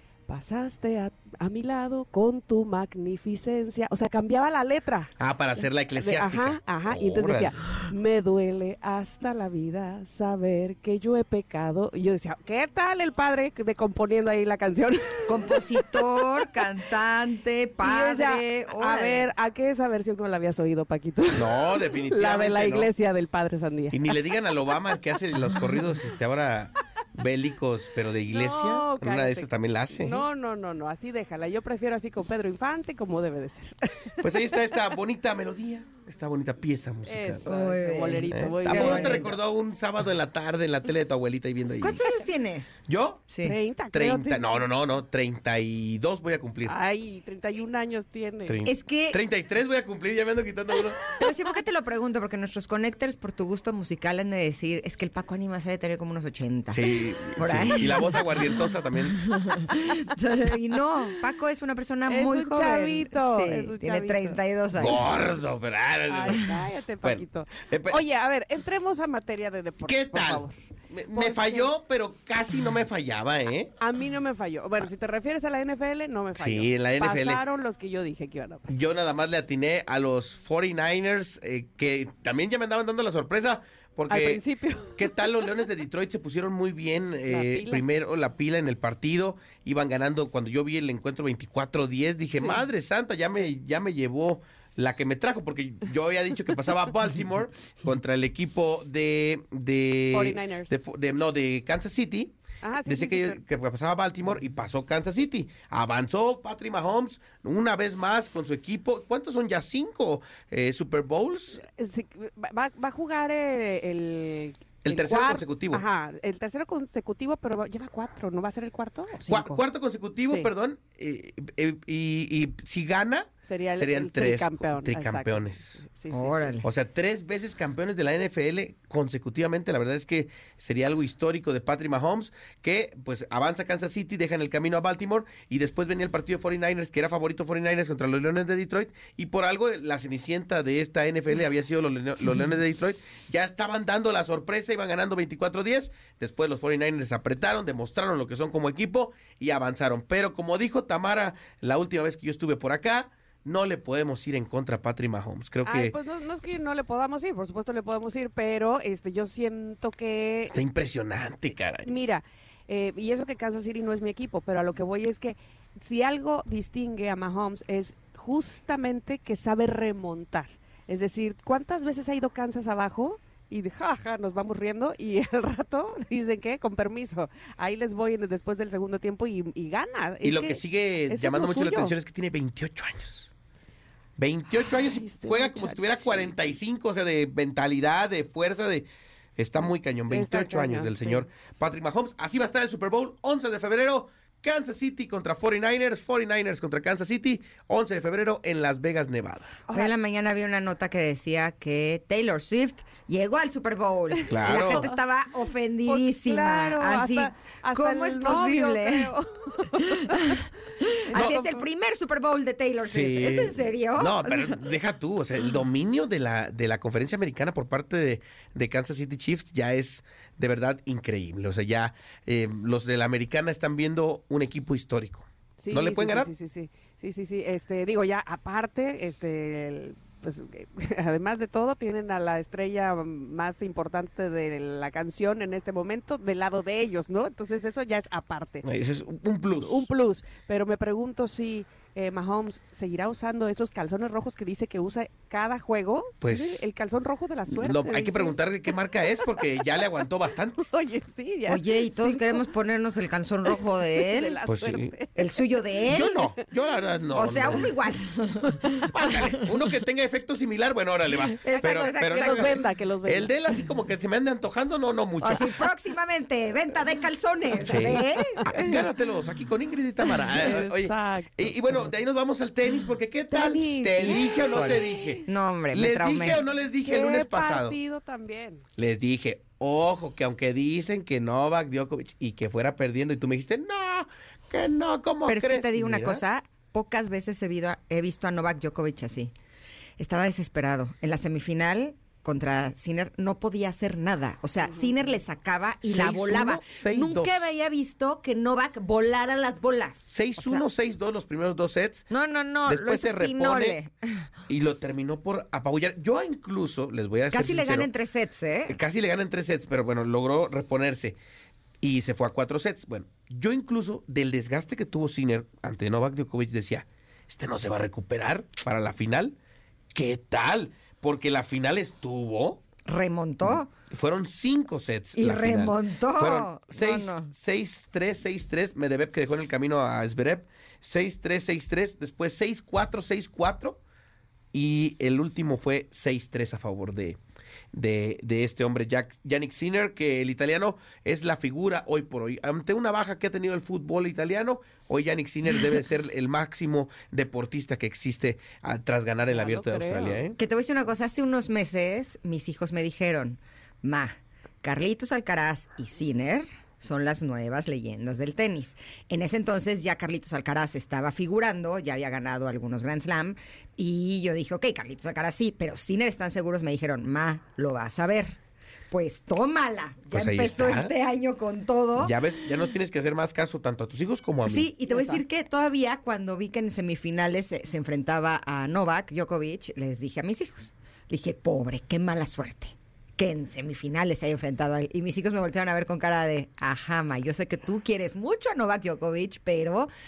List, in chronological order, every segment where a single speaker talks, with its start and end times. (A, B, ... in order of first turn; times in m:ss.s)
0:00.3-0:05.1 A
0:05.2-0:07.5 B
0:05.9-0:16.0 A
0:15.3-0:19.3 C
0:17.8-0:24.1 A
0:21.3-0:22.9 B
0:23.9-0:30.2 B
0:28.3-0:34.9 A
0:34.2-0:37.5 B
0:37.0-0:39.3 A
0:37.4-0:39.4 C
0:38.3-0:42.0 B
0:41.8-0:42.7 C
0:42.9-0:43.3 B
0:43.3-0:43.6 C
0:43.4-0:44.6 A
0:43.9-0:46.8 B
0:46.6-0:48.6 A
0:48.4-0:51.0 B
0:48.6-0:49.2 C
0:51.2-0:56.8 C
0:56.7-0:59.2 B
0:57.4-0:58.5 C
0:59.2-1:05.1 C
1:02.1-1:04.4 A
1:04.7-1:08.0 B
1:06.1-1:10.6 A
1:09.8-1:13.7 B
1:11.1-1:11.7 A
1:13.8-1:18.8 A
1:16.3-1:17.4 B
1:18.7-1:24.4 B
1:24.1-1:25.2 A
1:24.9-1:51.6 B
1:27.3-1:27.8 A
1:32.3-1:32.6 A
1:40.1-1:40.7 A
1:42.6-1:43.4 A
1:51.6-1:59.6 A
1:54.8-1:55.8 B
1:59.3-2:05.8 B
2:00.2-2:00.5 A
2:03.4-2:06.6 A
2:06.1-2:06.7 C
2:06.6-2:36.0 B
2:35.6-2:40.6 A
2:40.5-2:41.9 B
2:41.8-3:02.0 A
3:00.2-3:03.3 B
3:04.2-3:19.6 B
3:04.6-3:06.4 A
3:10.1-3:11.5 A
3:19.7-3:29.1 C
3:24.3-3:24.9 B
3:24.4-3:24.9 A
3:25.8-3:31.6 A
3:30.0-3:34.6 C
3:31.1-3:31.4 B
3:32.8-3:46.3 B
3:45.6-3:58.6 A
3:58.6-3:59.8 B
3:59.6-4:12.4 A
4:06.2-4:06.6 B
4:07.5-4:10.6 B
4:11.5-4:14.4 C
4:13.5-4:15.6 A
4:14.4-4:14.9 B
4:15.2-4:16.2 C
4:15.9-4:17.7 B
4:17.1-4:19.3 C
4:18.9-4:25.6 B
4:21.4-4:22.6 C
4:21.4-4:23.3 A
4:25.2-4:28.8 C
4:27.6-4:37.8 B
4:30.3-4:31.9 A
4:33.3-4:34.5 A
4:34.4-4:36.4 C
4:36.8-4:38.6 A
4:38.8-4:46.2 B
4:45.3-4:49.3 C
4:50.0-5:00.6 C
4:54.7-4:55.0 A
4:55.8-4:57.3 B
5:00.1-5:02.1 B
5:02.1-5:04.2 C
5:02.6-5:03.8 B
5:04.5-5:07.9 B
5:07.3-5:08.8 C
5:08.7-5:11.2 B
5:11.8-5:19.4 B
5:19.9-5:22.6 B
5:22.8-5:23.7 C
5:23.4-5:33.8 B
5:25.2-5:27.3 C
5:34.5-5:37.2 B
5:37.7-5:50.4 B
5:49.3-5:50.2 A
5:50.4-6:08.4 C
6:08.9-6:12.2 C
6:10.1-6:10.9 B
6:12.0-6:14.8 B
6:14.4-6:29.9 C
6:14.9-6:15.2 A